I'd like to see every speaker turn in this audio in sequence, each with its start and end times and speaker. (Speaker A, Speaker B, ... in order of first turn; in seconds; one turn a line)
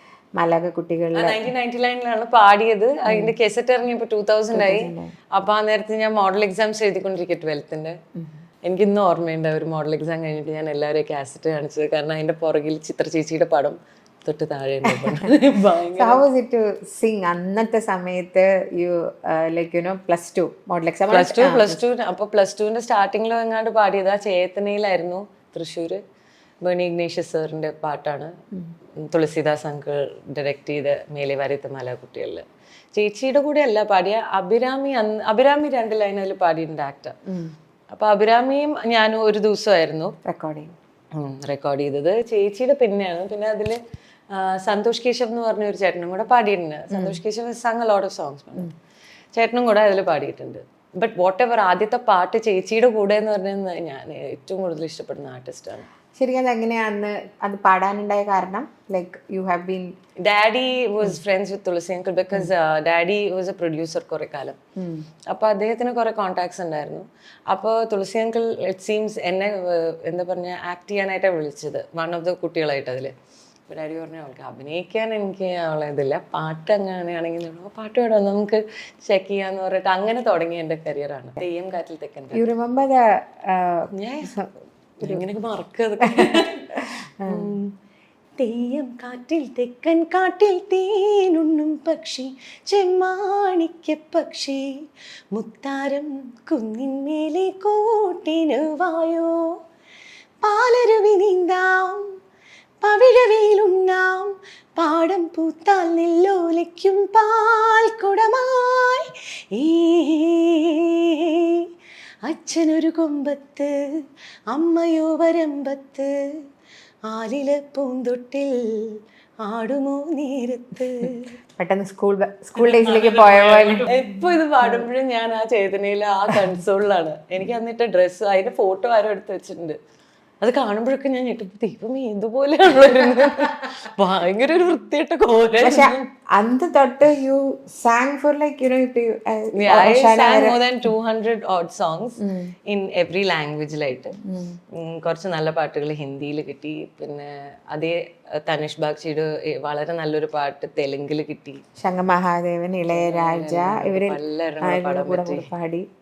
Speaker A: 0.4-1.5
Speaker B: 1.1-8.0
Speaker A: 3.0-3.3
Speaker A: 4.5-5.1
Speaker B: 8.7-16.2
Speaker A: 14.9-15.3
Speaker A: 15.9-21.8
Speaker B: 21.1-26.0
Speaker B: 26.6-28.3
Speaker B: 29.0-37.1
Speaker A: 37.2-37.5
Speaker B: 37.9-40.1
Speaker A: 40.2-40.7
Speaker B: 41.1-43.8
Speaker B: 44.3-48.7
Speaker A: 46.9-47.1
Speaker B: 49.4-55.9
Speaker A: 56.1-60.0
Speaker B: 60.2-64.6
Speaker A: 64.8-65.0
Speaker B: 65.3-73.1
Speaker B: 73.7-82.4
Speaker A: 82.3-84.5
Speaker B: 83.9-84.3
Speaker B: 85.0-86.7
Speaker A: 86.0-87.5
Speaker B: 87.2-87.7
Speaker B: 88.4-94.7
Speaker B: 95.3-99.5
Speaker B: 100.4-102.1
Speaker B: 102.8-111.7
Speaker B: 112.2-113.8
Speaker B: 114.5-116.1
Speaker B: 117.1-121.3
Speaker A: 121.6-124.0
Speaker B: 122.6-129.8
Speaker B: 130.4-136.1
Speaker A: 135.6-140.6
Speaker B: 139.5-144.1
Speaker A: 142.2-142.5
Speaker A: 144.2-144.6
Speaker B: 144.7-151.6
Speaker A: 151.8-155.9
Speaker B: 152.9-155.5